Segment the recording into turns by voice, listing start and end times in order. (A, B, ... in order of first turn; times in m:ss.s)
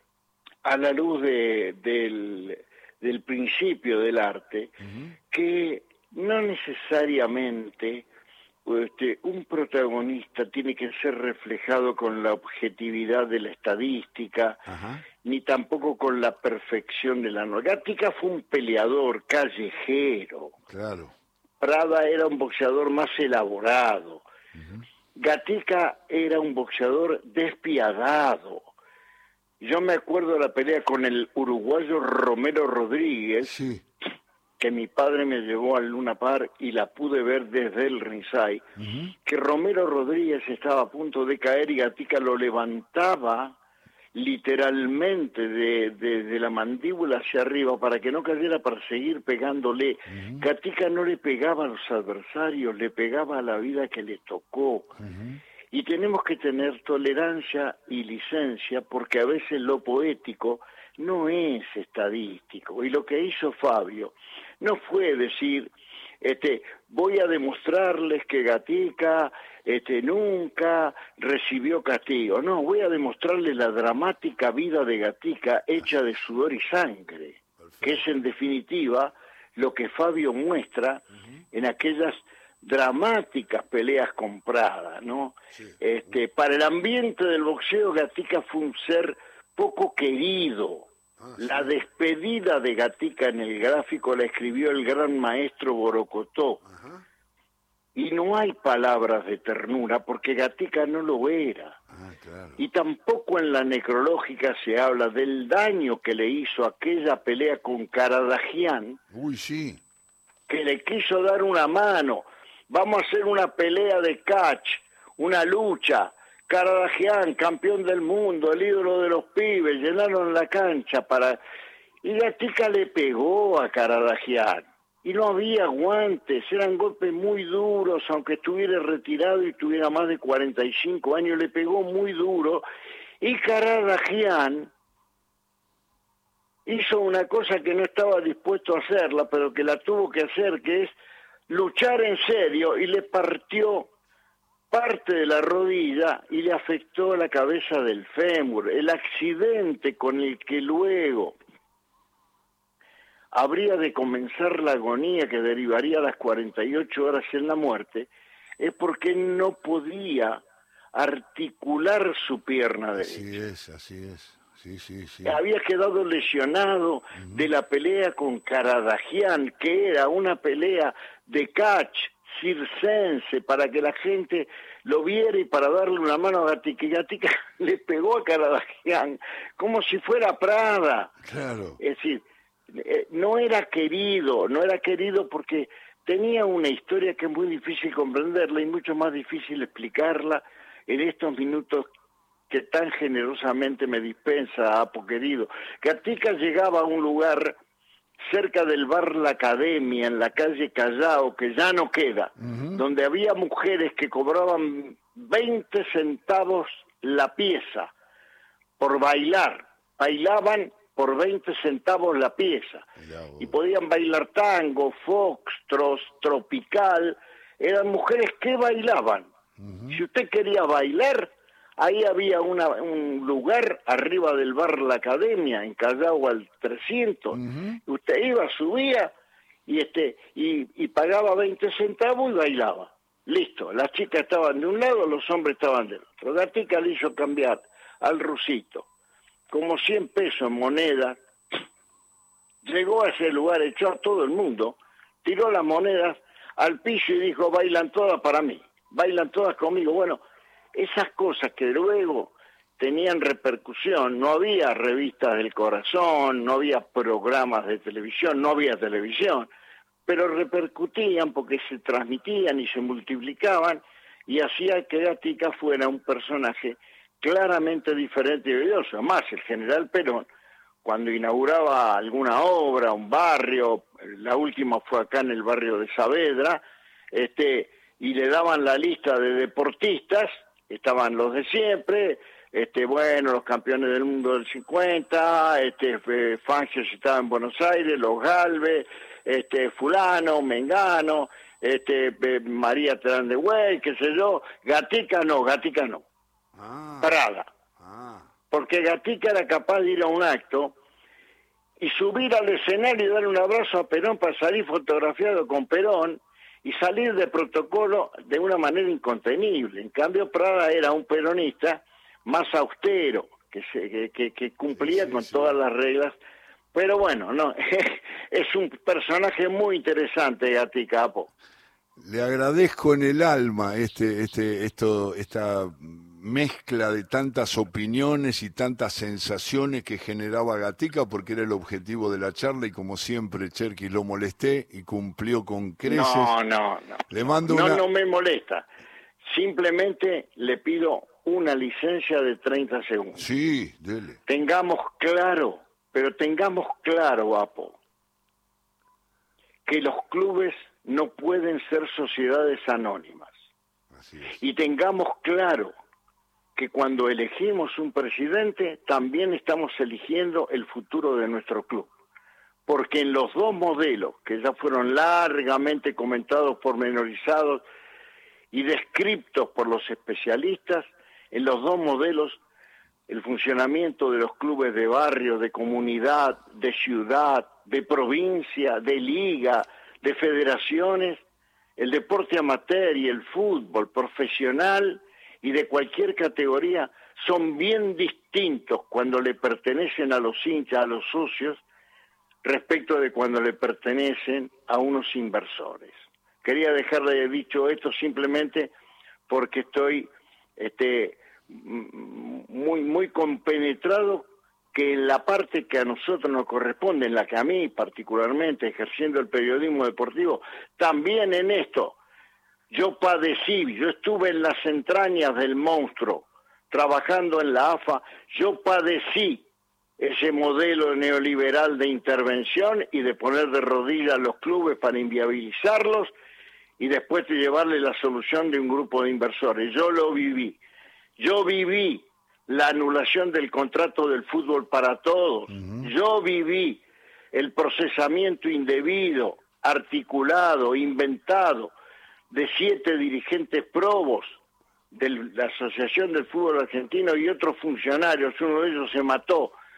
0:00.6-0:04.7 A
0:04.8-0:05.1 B
0:05.3-0:08.1 A
0:08.6-0:14.6 A
0:14.7-0:15.0 B
0:15.2-0:20.6 A
0:20.7-0:21.1 B
0:21.6-0:24.2 A
0:24.6-0:24.8 B
0:25.2-0:28.6 A
0:29.6-0:33.6 A
0:33.4-0:33.8 B
0:34.6-0:38.6 A
0:38.8-0:39.1 B
0:39.2-0:43.6 A
0:44.1-0:55.0 A
0:50.1-0:50.5 B
0:55.0-0:55.4 B
0:55.7-1:36.6 A
1:17.6-1:18.0 B
1:31.2-1:31.7 B
1:36.7-1:37.0 B
1:38.0-1:41.8 A
1:41.9-1:42.6 B
1:42.6-1:49.0 A
1:49.1-1:49.8 B
1:50.5-2:01.4 A
2:02.0-2:12.6 A
2:13.2-2:14.7 A
2:16.7-2:21.0 A
2:21.5-2:23.9 A
2:24.7-2:31.4 A
2:33.3-2:40.4 A
2:40.9-2:43.3 A
2:43.0-2:45.4 B
2:45.2-3:01.1 A
2:47.2-2:47.4 B
3:01.2-3:01.8 B
3:01.8-3:11.9 A
3:12.5-3:17.6 A
3:18.2-3:27.9 A
3:22.4-3:22.8 B
3:28.8-3:32.9 A
3:33.0-3:33.5 B
3:33.4-3:39.3 A
3:39.6-3:40.0 B
3:39.9-3:49.1 A
3:47.3-3:47.8 B
3:49.7-3:58.9 A
3:59.5-4:01.2 A
4:02.6-4:10.2 A
4:10.7-4:19.5 A
4:20.1-4:30.3 A
4:30.8-4:56.0 A
4:56.6-4:57.2 B
4:57.0-4:57.5 A
4:57.8-4:58.3 B
4:58.5-5:00.8 A
5:01.8-5:16.2 A
5:14.9-5:15.5 B
5:16.7-5:21.3 A
5:22.0-5:36.3 B
5:35.8-5:38.7 A
5:37.1-5:37.8 B
5:39.2-5:43.2 A
5:43.2-5:44.2 B
5:44.3-5:47.8 A
5:49.7-5:53.3 A
5:53.9-5:54.4 B
5:54.4-5:55.7 A
5:56.6-6:01.9 A
6:02.7-6:07.6 A
6:08.5-6:12.4 A
6:13.1-6:21.2 A
6:21.8-6:31.6 A
6:32.4-6:38.7 A
6:39.3-6:52.0 A
6:52.7-6:59.5 A
7:00.0-7:06.1 A
7:06.8-7:10.6 A
7:11.2-7:16.8 A
7:15.5-7:15.9 B
7:17.3-7:21.7 A
7:22.3-7:24.4 A
7:24.9-7:29.6 A